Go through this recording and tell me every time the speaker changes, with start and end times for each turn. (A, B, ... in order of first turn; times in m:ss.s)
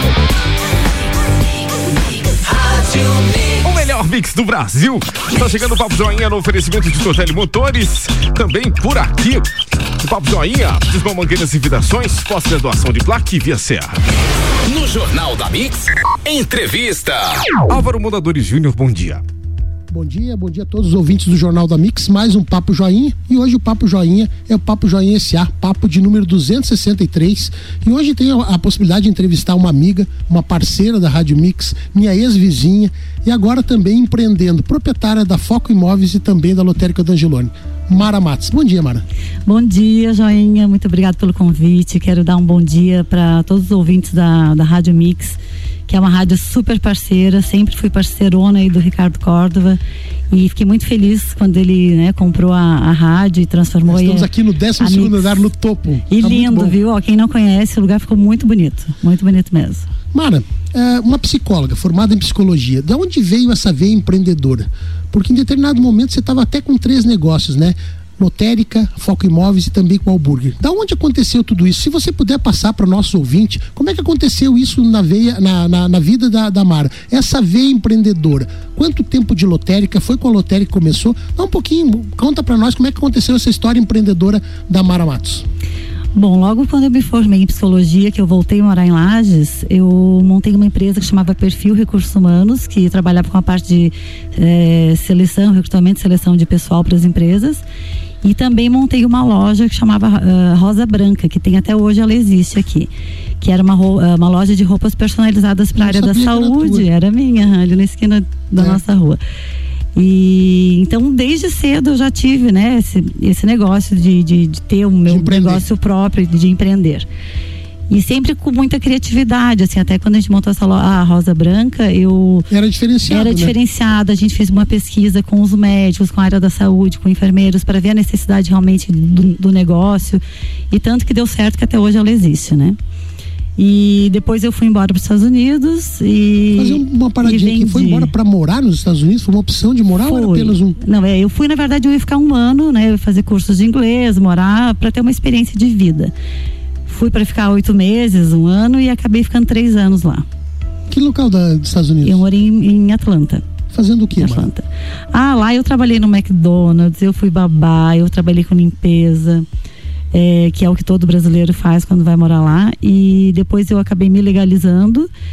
0:03.6-0:09.5 A
0:10.0-0:14.0 A
0:14.7-0:17.3 B
0:17.7-0:19.2 A
0:19.9-0:39.0 C
0:39.4-0:49.8 D
0:50.3-0:55.5 D
0:53.9-0:56.8 C
0:56.1-0:59.9 D
1:00.1-1:25.4 C
1:26.1-1:37.6 D
1:38.2-1:42.9 D
1:43.4-1:49.2 D
1:45.8-1:46.9 C
1:49.9-1:57.1 D
1:55.1-1:55.6 C
1:57.9-2:02.5 D
2:02.5-2:03.5 C
2:03.1-2:12.8 D
2:13.6-2:18.1 D
2:16.5-2:20.8 C
2:20.0-2:26.1 D
2:26.9-2:30.2 D
2:30.9-2:32.2 C
2:32.0-2:33.4 D
2:33.7-2:34.5 C
2:34.2-2:39.5 D
2:40.1-2:45.1 D